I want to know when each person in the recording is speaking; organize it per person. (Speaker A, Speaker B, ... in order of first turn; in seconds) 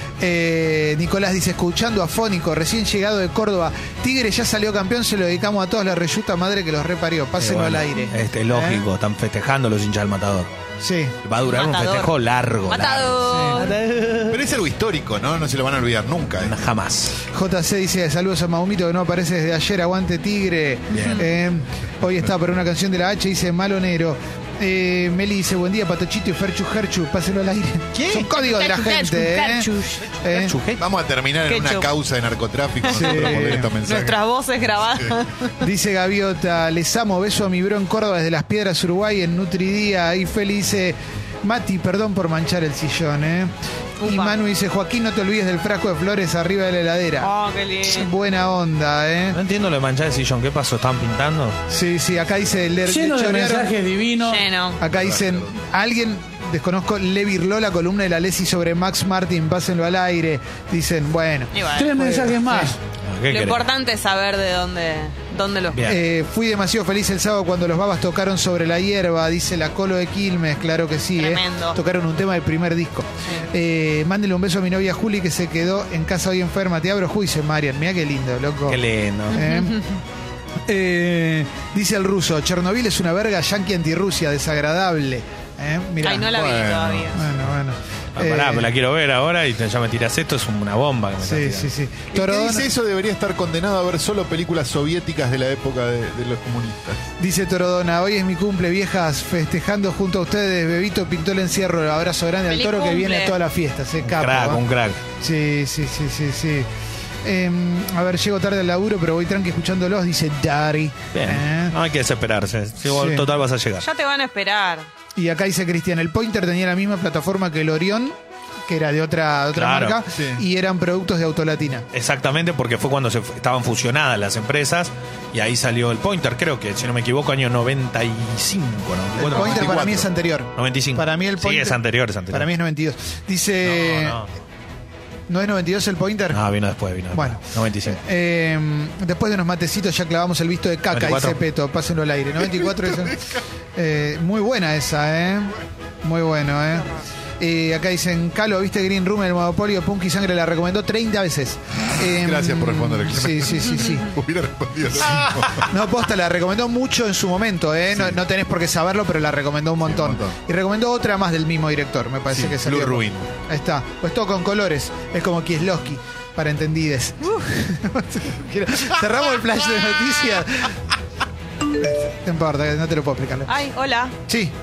Speaker A: 0.2-8.9, 10.8-11.2, 13.3-13.6, 17.3-30.6, 32.8-33.7, 35.6-47.3, 47.8-49.4, 51.7-53.8, 54.8-62.8, 65.8-78.8, 79.3-79.8, 80.7-86.5, 87.1-88.7, 91.2-92.7, 97.2-104.6, 105.2-106.7, 107.2-111.7, 112.8-113.3, 115.2-121.9, 129.2-134.2, 135.3-136.4, 137.1-154.2, 154.9-170.8, 171.8-173.6, 174.3-174.5
Speaker B: 7.4-10.5, 11.2-14.4, 16.4-17.2, 20.9-21.3, 30.2-30.8, 49.3-51.6, 63.0-63.6, 65.7-66.0, 78.7-79.5, 88.1-91.7, 104.0-105.0, 111.1-113.9, 119.5-120.0, 121.9-129.9, 130.5-132.5, 133.6-134.3, 136.3-138.0, 140.9-141.4
Speaker C: 11.4-12.1, 12.7-13.8, 28.2-30.1, 31.5-31.9, 32.9-35.6, 44.0-44.4, 47.2-48.1, 54.2-54.8, 61.5-62.0, 63.3-66.0, 71.2-71.8, 79.3-80.0, 86.0-87.2, 102.5-103.4, 113.8-114.9, 173.5-174.1
Speaker D: 14.3-16.6, 30.8-34.2, 54.9-55.5, 86.3-87.2, 92.1-97.1, 120.1-120.4, 129.3-130.1, 152.1-155.7, 157.9-158.2, 159.8-160.4, 162.3-163.3
Speaker E: 52.9-54.2, 61.8-62.6